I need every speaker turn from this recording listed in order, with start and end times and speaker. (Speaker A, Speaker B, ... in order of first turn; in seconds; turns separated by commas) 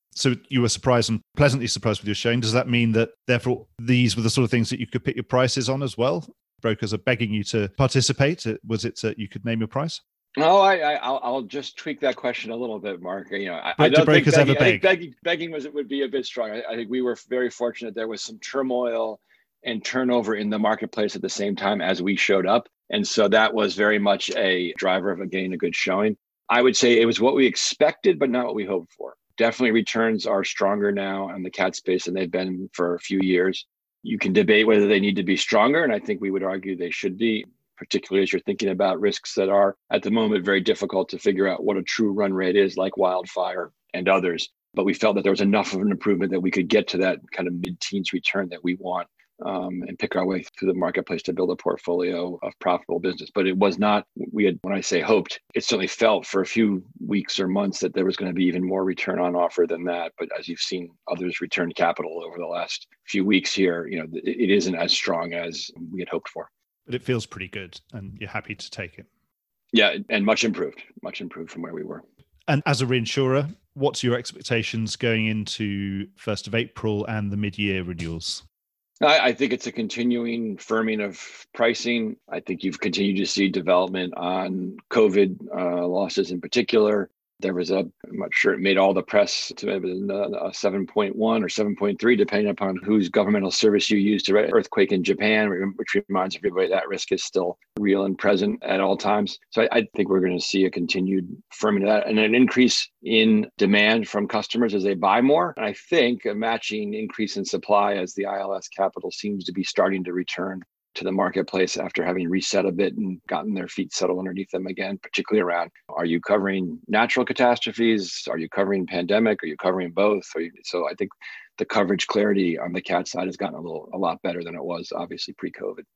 Speaker A: 0.1-10.0, Speaker B: 10.4-66.5, Speaker A: 13.8-14.8, Speaker A: 66.9-69.1, Speaker B: 69.7-72.0, Speaker A: 72.5-78.4, Speaker B: 79.0-125.8